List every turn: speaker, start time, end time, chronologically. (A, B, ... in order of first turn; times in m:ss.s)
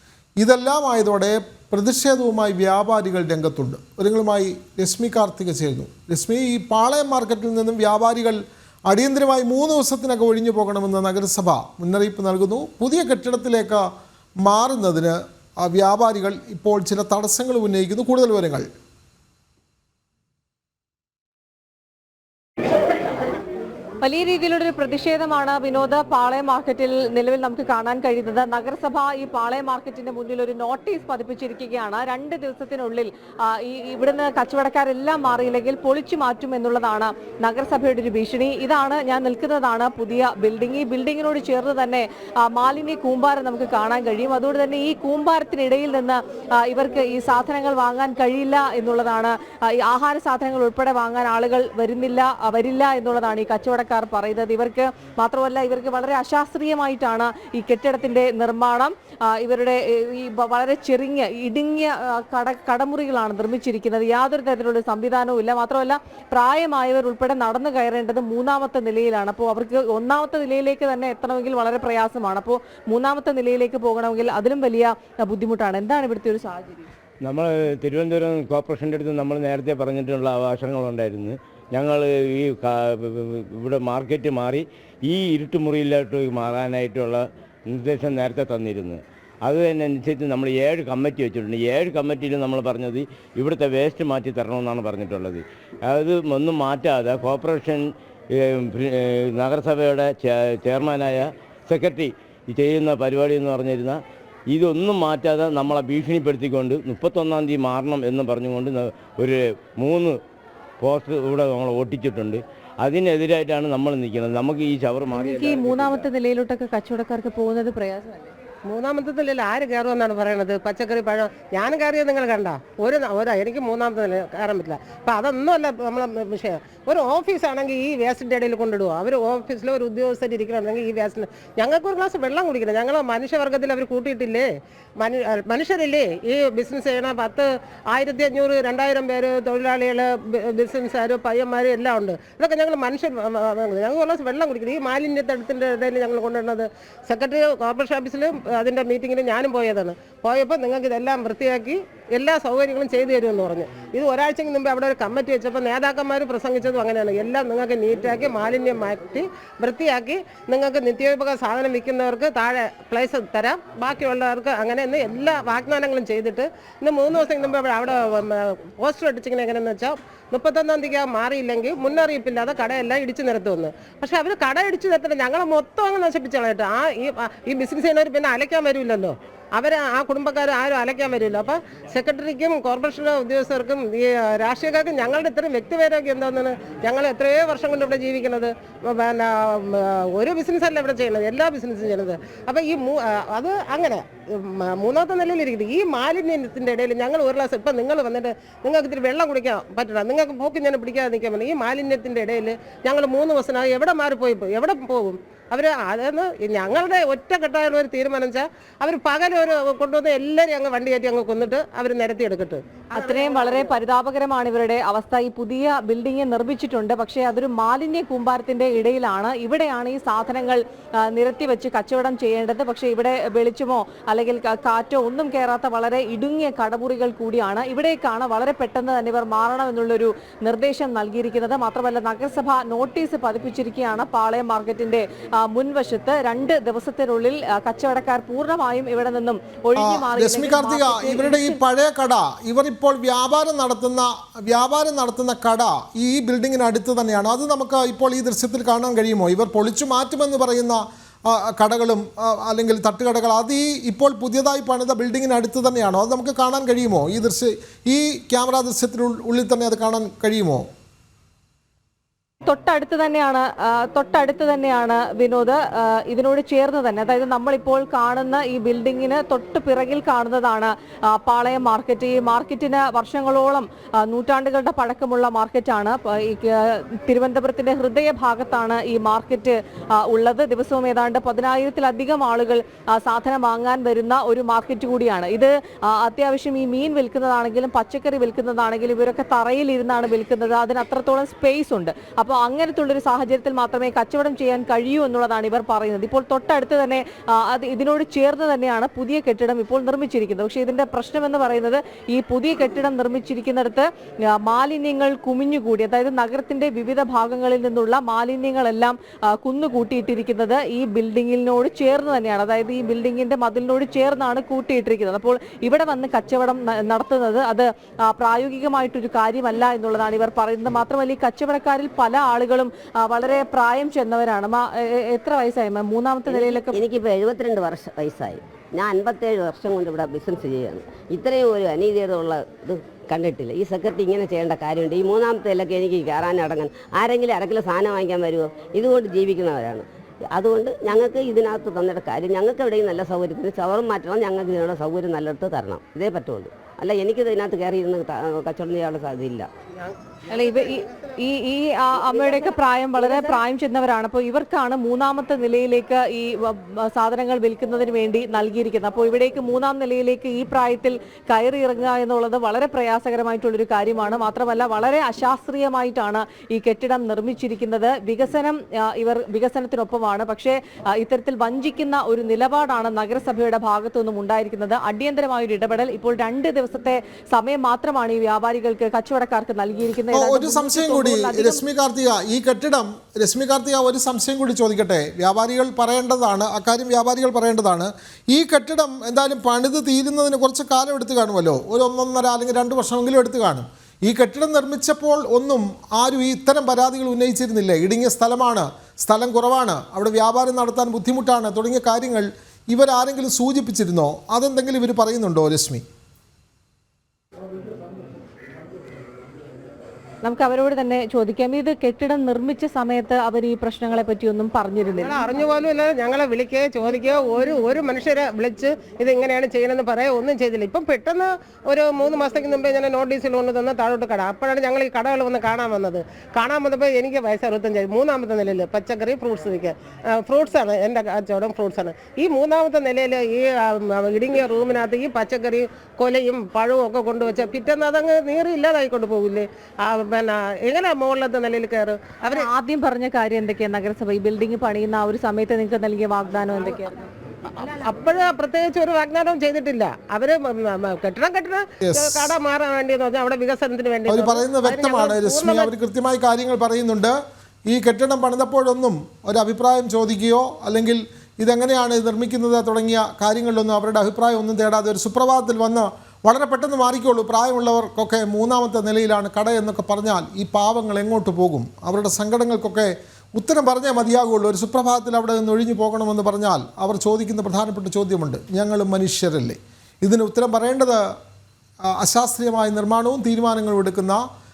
0:00.4-0:13.9 A
0:14.4-0:18.7 A
0:24.0-1:16.9 B
1:17.2-1:37.8 C
1:38.3-1:44.0 C
1:44.5-1:50.2 C
1:50.8-1:56.1 C
1:55.1-1:58.3 B
1:58.7-3:33.7 D
3:33.0-4:01.6 B
3:59.8-4:20.7 A
4:22.5-5:26.8 B
5:26.3-5:49.5 E
5:49.8-5:51.2 D
5:50.3-6:21.6 B
5:52.0-5:53.4 E
6:20.1-6:45.8 A
6:50.2-6:55.2 B
6:55.0-7:22.5 D
7:22.3-7:27.1 B
7:27.6-7:35.7 D
7:27.6-7:27.9 B
7:31.8-7:32.3 A
7:34.1-7:37.2 A
7:37.7-8:01.1 A
8:02.0-8:04.2 A